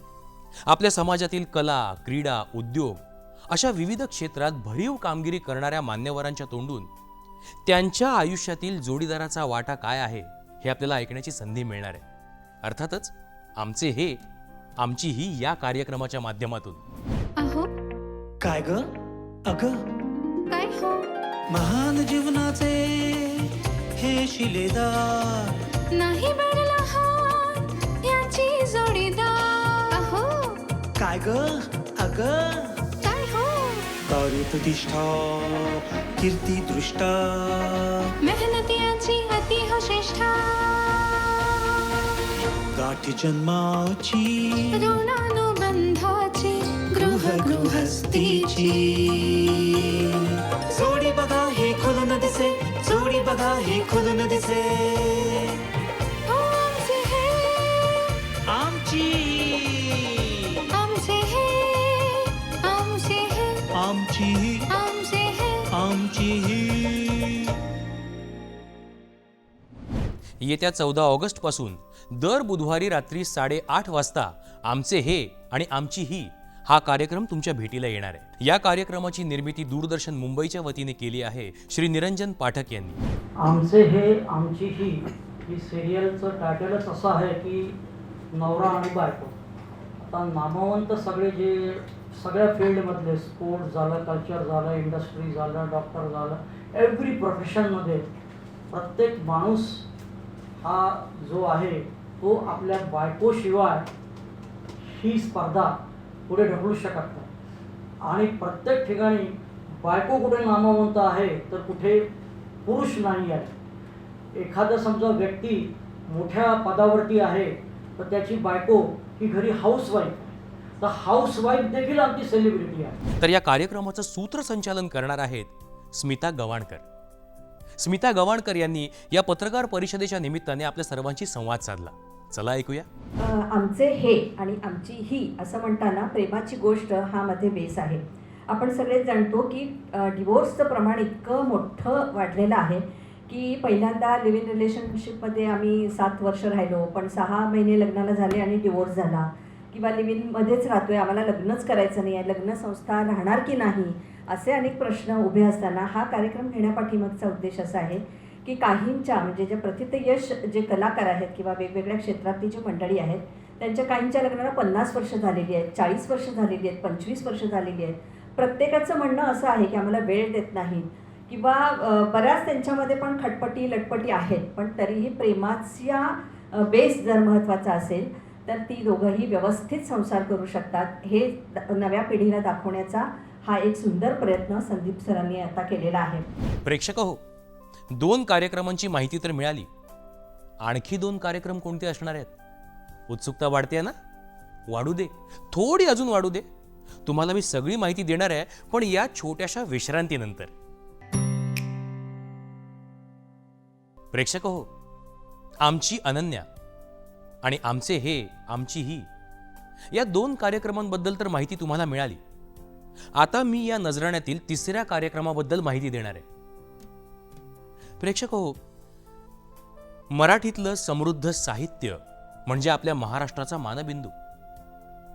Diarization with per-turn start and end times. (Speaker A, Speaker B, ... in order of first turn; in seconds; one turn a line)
Speaker A: 0.7-6.9
Speaker A: 7.6-12.0
Speaker A: 12.6-14.2
Speaker A: 14.8-16.8
Speaker B: 17.4-17.7
Speaker C: 18.4-18.9
Speaker C: 19.5-19.8
Speaker B: 20.5-21.1
Speaker C: 21.5-25.5
Speaker B: 25.9-30.6
Speaker C: 31.0-32.7
Speaker B: 33.0-33.9
Speaker C: 34.1-38.0
Speaker B: 38.2-41.1
Speaker C: 42.7-45.0
Speaker B: 44.7-48.9
Speaker C: 47.0-50.2
Speaker C: 50.7-55.5
Speaker B: 52.9-54.3
Speaker B: 56.3-58.1
Speaker C: 58.5-60.4
Speaker B: 60.7-63.6
Speaker C: 63.7-64.7
Speaker B: 64.7-65.7
Speaker C: 65.7-67.3
Speaker A: 70.4-83.0
Speaker D: 83.4-87.8
Speaker D: 88.3-89.3
Speaker D: 90.0-98.0
Speaker D: 98.7-99.8
Speaker D: 100.6-103.9
Speaker D: 104.8-107.3
Speaker D: 108.0-112.1
Speaker D: 112.6-113.5
Speaker D: 114.3-123.0
Speaker A: 123.2-126.8
Speaker A: 127.8-132.9
Speaker E: 133.2-186.2
Speaker A: 186.6-187.2
Speaker A: 187.9-189.7
Speaker A: 190.6-192.3
Speaker A: 193.1-193.9
Speaker A: 194.7-196.4
Speaker A: 197.1-200.5
Speaker A: 204.1-204.7
Speaker A: 205.6-206.4
Speaker A: 207.4-209.1
Speaker A: 209.9-212.2
Speaker A: 213.1-216.2
Speaker A: 218.0-218.6
Speaker A: 220.1-224.1